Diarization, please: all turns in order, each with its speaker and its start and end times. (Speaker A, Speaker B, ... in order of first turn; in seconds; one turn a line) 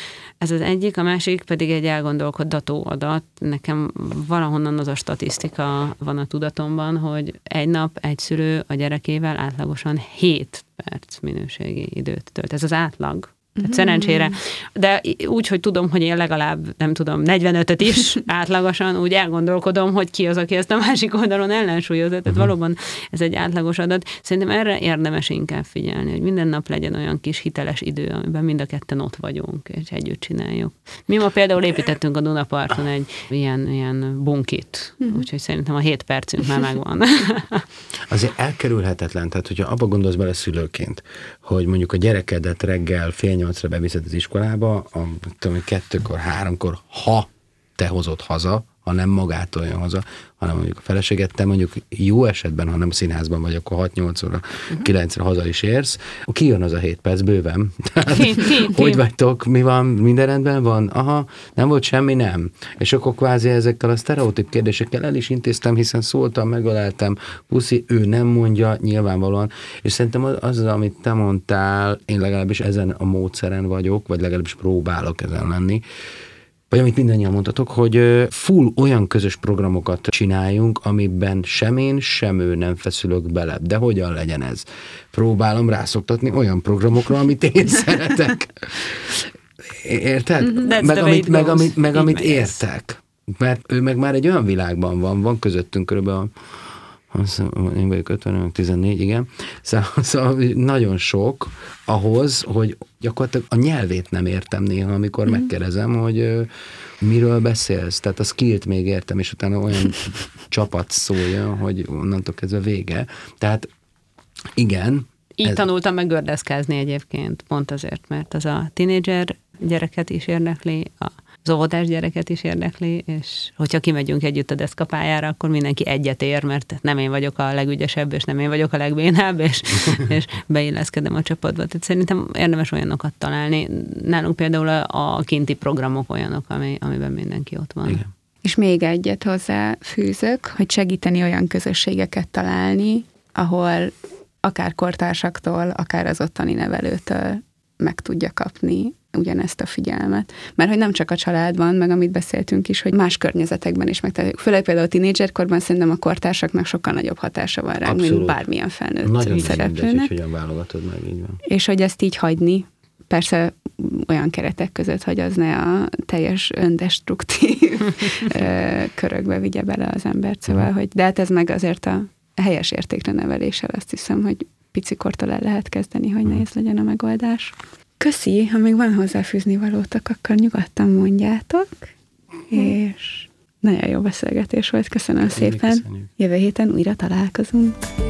Speaker A: 0.4-37.6
Speaker B: 13.6-14.3
Speaker C: 38.1-75.8
Speaker A: 58.1-59.0
Speaker C: 76.7-96.3
Speaker A: 90.6-92.6
Speaker C: 97.1-106.5
Speaker C: 107.0-113.7
Speaker C: 114.5-115.6
Speaker A: 115.4-138.0
Speaker B: 138.4-160.1
Speaker C: 157.8-158.4
Speaker C: 159.0-161.4
Speaker B: 161.4-181.9
Speaker B: 182.5-187.8
Speaker C: 185.2-186.1